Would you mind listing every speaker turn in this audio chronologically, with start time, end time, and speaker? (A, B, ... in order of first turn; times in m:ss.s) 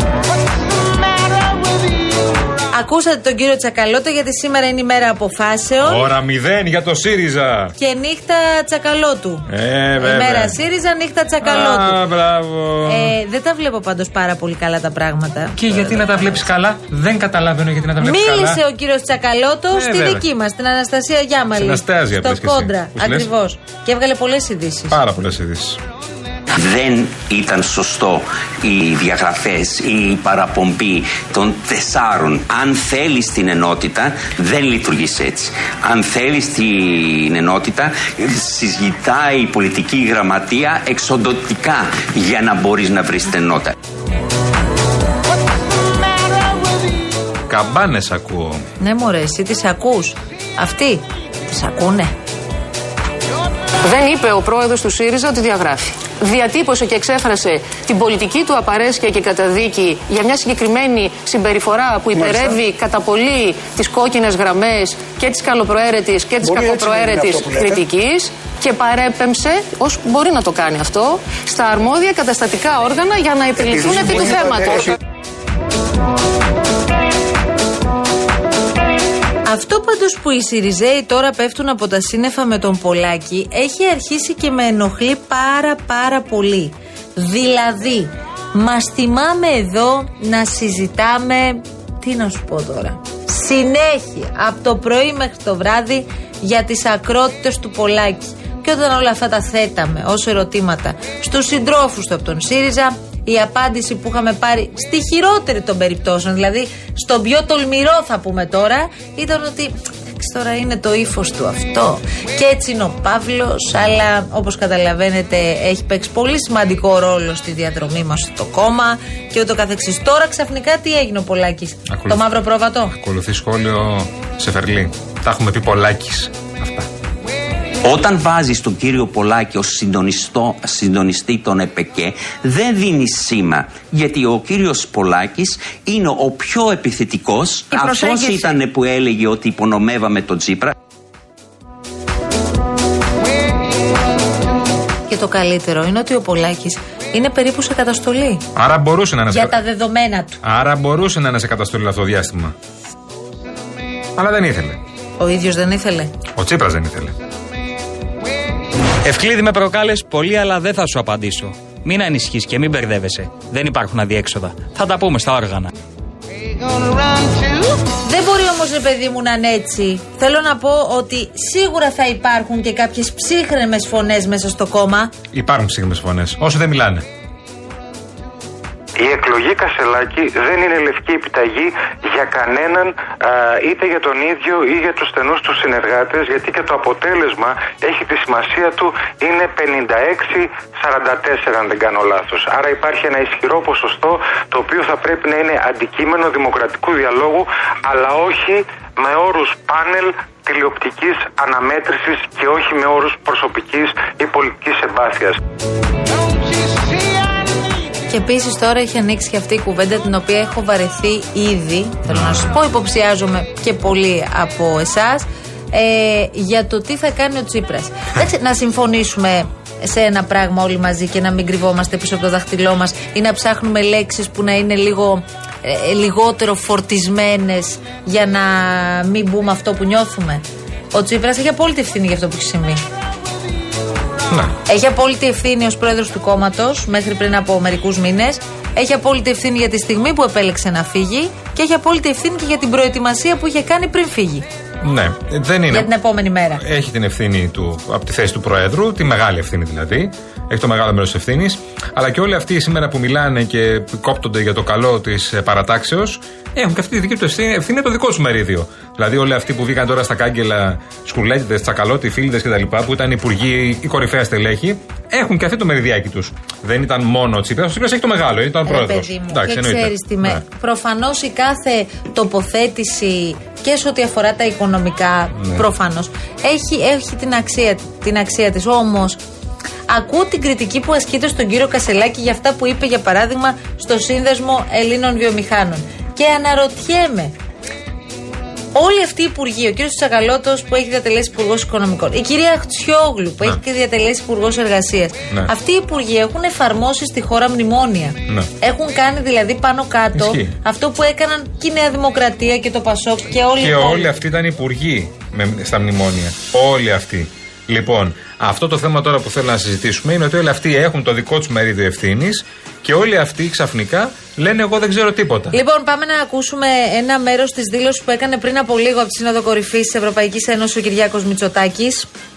0:02.7-0:06.1 A
0:05.8-0:07.8 B
0:07.8-0:12.0 A
0:09.5-0:10.6 B
0:11.4-0:13.1 B
0:12.8-0:16.5 A
0:15.6-0:18.6 B
0:18.0-0:25.0 A
0:19.7-0:20.2 B
0:21.6-0:23.3 B
0:24.9-0:25.8 B
0:26.5-0:43.7 C
0:47.5-0:48.7 B
0:48.8-0:52.1 A
0:53.8-1:14.9 D
1:19.4-2:03.0 A
2:01.9-2:02.3 B
2:02.9-2:06.9 B
2:07.8-2:20.7 C
2:25.1-2:28.4 A
2:28.6-2:29.6 B
2:29.3-2:30.4 A
2:30.4-2:32.6 B
2:34.2-2:34.8 B
2:35.2-2:36.1 A
2:36.3-2:37.1 B
2:39.1-2:41.5 E
2:42.1-2:45.7 E
2:48.0-2:55.1 A
2:55.3-2:57.0 B
2:59.0-3:25.4 F
3:28.1-3:52.8 A
3:32.1-3:32.6 B
3:54.6-4:04.4 A
4:04.8-4:05.9 B
4:05.7-4:06.6 A
4:06.6-4:30.4 B
4:28.6-4:39.2 A
4:39.9-4:47.3 A
4:48.7-5:04.1 A
5:00.2-5:00.5 B
5:03.6-5:15.6 B
5:15.5-5:22.1 A